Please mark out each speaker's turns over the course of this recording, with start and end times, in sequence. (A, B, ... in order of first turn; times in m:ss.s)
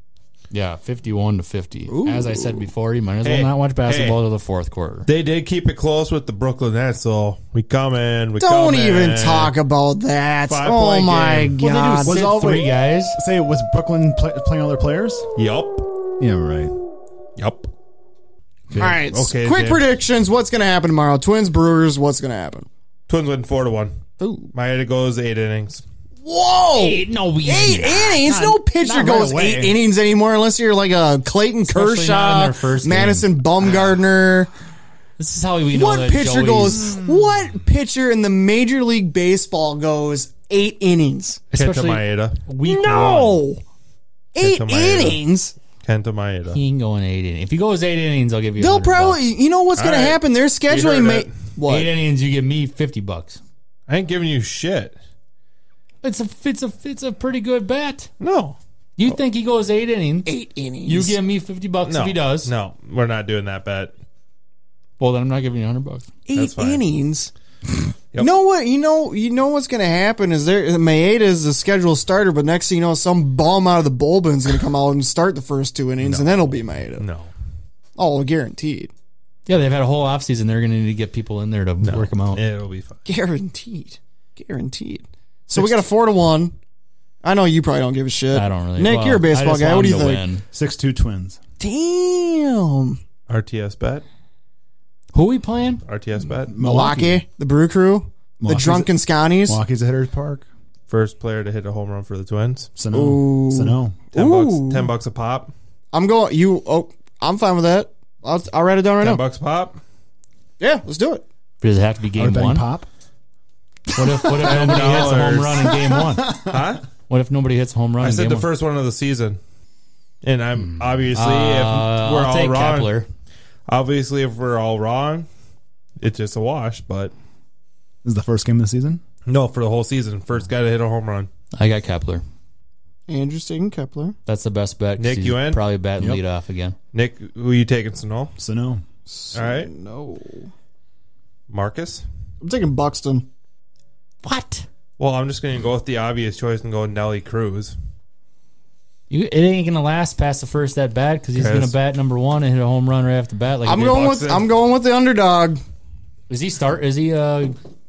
0:00.5-0:05.1 A
0:01.9-0:02.7 B
0:03.2-0:04.2 C
0:05.1-0:09.6 C
0:08.4-0:12.2 B
0:10.5-0:11.6 C
0:11.6-0:13.2 A
0:12.0-0:15.3 D
0:15.4-0:15.9 C
0:16.2-0:16.7 D
0:17.4-0:17.7 C
0:18.7-0:19.9 C
0:18.7-0:22.7 B
0:23.1-0:24.0 C
0:24.2-0:24.5 B
0:24.5-0:25.8 C
0:26.2-0:34.5 B
0:26.8-0:28.5 A
0:28.4-0:29.8 D
0:31.7-0:33.4 A
0:35.2-0:37.0 A
0:35.7-0:41.4 B
0:41.5-0:43.4 A
0:41.5-0:43.1 C
0:42.6-0:43.6 B
0:44.4-0:45.5 B
0:44.4-0:45.2 C
0:45.8-0:46.6 C
0:46.5-0:49.2 A
0:48.6-0:51.9 B
0:49.8-0:51.4 C
0:51.7-0:53.4 A
0:53.9-0:55.0 C
0:56.0-0:58.1 A
0:58.2-0:58.6 C
0:59.0-1:00.3 A
1:00.3-1:01.2 B
1:00.8-1:02.5 A
1:01.9-1:04.0 C
1:05.0-1:06.1 A
1:06.3-1:07.3 B
1:06.3-1:06.8 C
1:08.2-1:17.1 B
1:16.0-1:17.3 C
1:18.0-1:18.9 B
1:19.5-1:22.4 A
1:21.8-1:23.0 C
1:23.1-1:26.6 B
1:27.2-1:30.2 B
1:28.3-1:30.4 A
1:30.5-1:31.4 D
1:31.6-1:33.0 B
1:33.3-1:34.0 C
1:35.1-1:35.8 A
1:35.9-1:36.6 C
1:36.5-1:37.2 D
1:36.6-1:39.6 B
1:38.4-1:40.5 D
1:40.9-1:42.7 C
1:42.8-1:44.0 D
1:42.9-1:44.9 B
1:44.1-1:45.5 C
1:45.9-1:49.2 B
1:49.0-1:49.8 C
1:50.6-1:51.2 B
1:51.6-1:52.7 A
1:52.2-1:52.9 D
1:53.9-1:56.4 A
1:54.4-1:55.8 C
1:55.8-1:56.6 D
1:56.5-1:56.9 C
1:57.1-1:58.5 A
1:58.0-1:59.4 C
2:00.2-2:03.0 C
2:00.6-2:03.1 A
2:03.7-2:05.3 C
2:06.0-2:07.1 C
2:08.0-2:09.0 D
2:09.3-2:11.3 C
2:11.5-2:12.2 A
2:13.1-2:14.2 B
2:14.3-2:16.8 A
2:15.0-2:15.6 C
2:16.9-2:18.3 C
2:18.4-2:18.8 D
2:19.1-2:20.5 B
2:19.3-2:19.7 C
2:21.5-2:22.0 C
2:22.4-2:23.3 B
2:24.2-2:24.7 A
2:25.0-2:27.8 C
2:29.1-2:34.1 A
2:31.4-2:31.7 C
2:33.6-2:35.6 B
2:33.8-2:34.5 C
2:36.3-2:37.6 A